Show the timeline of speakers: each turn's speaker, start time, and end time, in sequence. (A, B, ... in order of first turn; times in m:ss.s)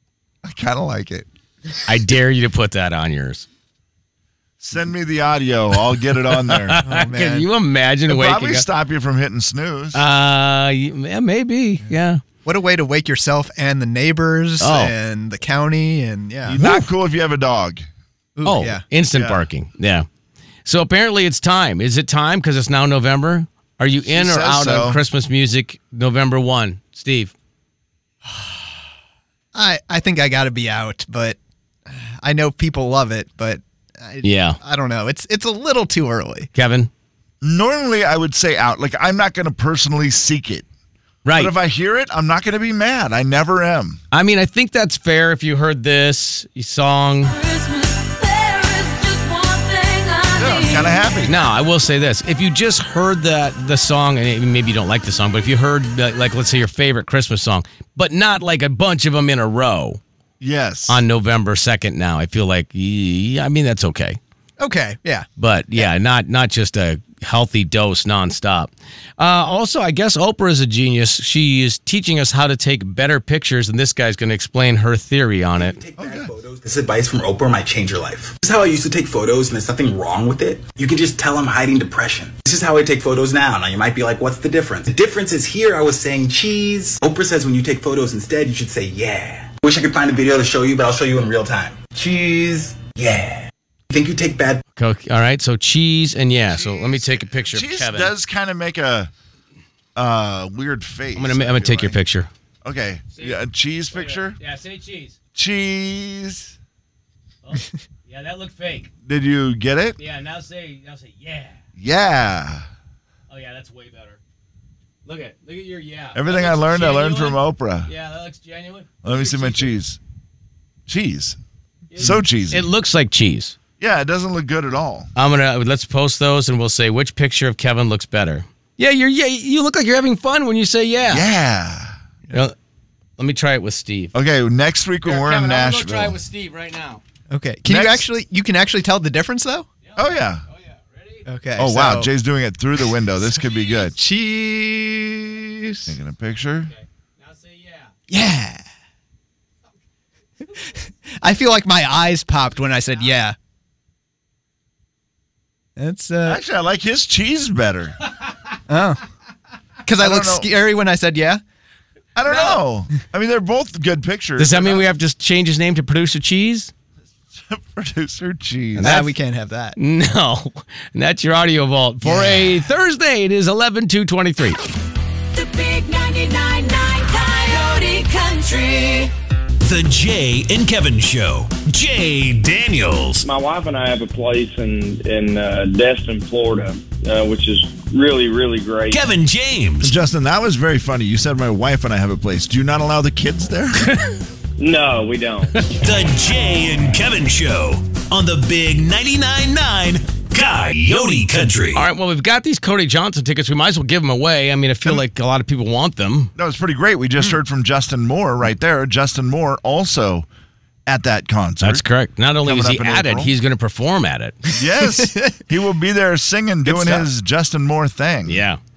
0:00.4-0:01.3 A
0:01.8-0:03.4 B
0:04.6-0:06.8 A
0:06.3-0:08.6 B
0:06.8-0:07.5 C
0:08.1-0:10.0 A
0:09.9-0:12.2 B
0:12.4-0:16.6 C
0:14.6-0:14.9 B
0:16.4-0:17.8 A
0:16.6-0:16.8 B
0:18.4-0:18.8 C
0:18.4-0:20.0 B
0:19.1-0:19.4 A
0:20.6-0:27.3 B
0:24.0-0:25.0 A
0:28.2-0:28.7 C
0:29.5-0:36.5 C
0:34.2-0:34.6 B
0:36.5-0:36.9 B
0:37.4-0:40.6 A
0:41.2-0:41.5 B
0:41.3-0:44.0 A
0:44.1-0:47.3 B
0:47.2-0:51.2 D
0:50.4-0:51.4 A
0:51.2-1:00.0 B
1:00.4-1:01.0 A
1:00.9-1:04.2 B
1:04.6-1:05.2 C
1:05.4-1:15.8 B
1:15.5-1:34.6 E
1:16.0-1:16.3 A
1:34.8-1:38.1 B
1:36.5-1:39.1 A
1:39.9-1:42.0 A
1:41.1-1:42.3 B
1:42.6-1:44.4 A
1:43.1-1:43.4 B
1:43.9-1:45.2 B
1:45.3-1:46.6 A
1:47.4-1:48.9 B
1:49.0-1:50.0 A
1:50.0-1:51.6 B
1:51.8-1:52.7 A
1:53.3-1:54.2 B
1:55.0-1:59.8 B
1:56.1-1:57.9 A
1:59.0-2:00.0 A
2:00.9-2:01.4 A
2:01.9-2:03.6 B
2:02.0-2:02.7 A
2:03.8-2:05.1 A
2:05.2-2:11.3 B
2:11.1-2:11.9 A
2:13.2-2:14.1 B
2:14.1-2:16.2 A
2:15.0-2:17.0 B
2:17.3-2:19.7 C
2:17.6-2:18.0 A
2:19.8-2:21.2 B
2:20.0-2:20.4 A
2:21.3-2:22.1 C
2:21.6-2:24.0 A
2:23.9-2:25.9 C
2:25.9-2:26.7 A
2:26.6-2:27.9 B
2:28.1-2:28.6 C
2:30.6-2:33.4 C
2:35.8-2:36.4 C
2:36.2-2:38.0 A
2:38.7-2:39.0 C
2:39.8-2:41.4 C
2:40.0-2:40.5 A
2:42.2-2:44.9 A
2:42.2-2:42.6 B
2:44.4-2:46.7 B
2:47.3-2:49.0 A
2:48.8-2:49.1 B
2:48.8-2:49.8 C
2:49.8-2:54.6 B
2:52.1-2:52.4 A
2:55.3-2:59.1 D
2:59.6-3:03.2 F
3:03.2-3:09.0 G
3:08.9-3:10.0 F
3:09.8-3:13.9 A
3:14.6-3:15.5 G
3:15.8-3:21.8 F
3:21.7-3:26.3 B
3:26.4-3:30.3 A
3:30.9-3:31.8 A
3:31.6-3:34.4 B
3:32.4-3:33.4 A
3:34.6-3:38.4 A
3:34.8-3:35.4 C
3:36.6-3:37.1 C
3:38.2-3:38.6 B